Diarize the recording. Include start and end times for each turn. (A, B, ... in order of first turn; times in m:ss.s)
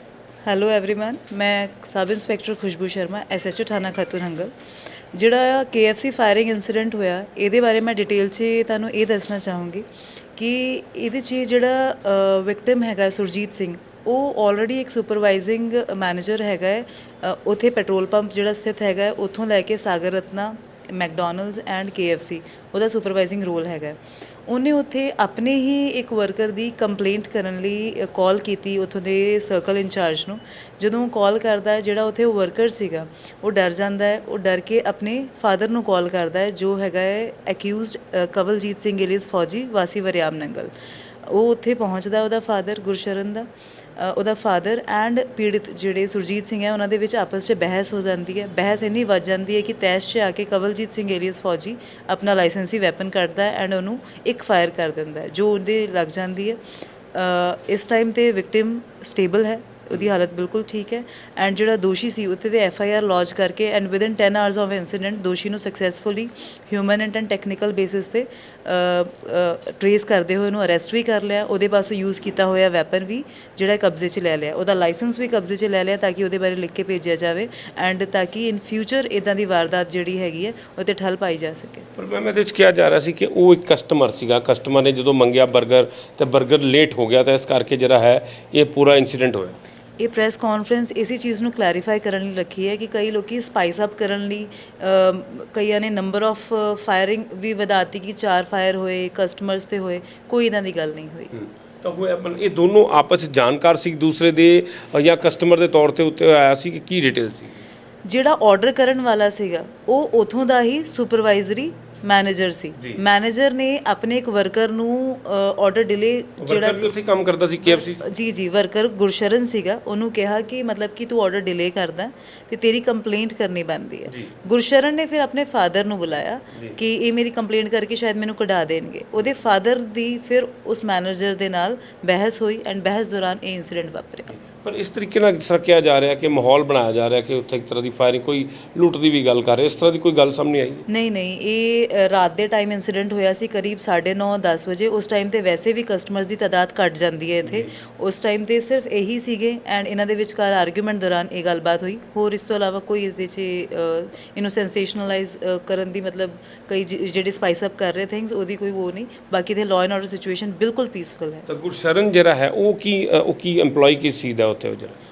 0:00.4-0:04.5 A
0:05.1-0:40.7 A
0:41.2-0:56.6 A
0:57.1-1:21.9 A
1:22.0-1:29.6 B
1:30.0-1:41.4 A
1:41.4-1:47.6 B
1:48.1-1:56.9 A
1:56.4-1:58.0 B
1:57.8-2:14.4 A
2:14.4-2:20.9 B
2:20.9-2:41.5 A
2:41.5-2:45.0 B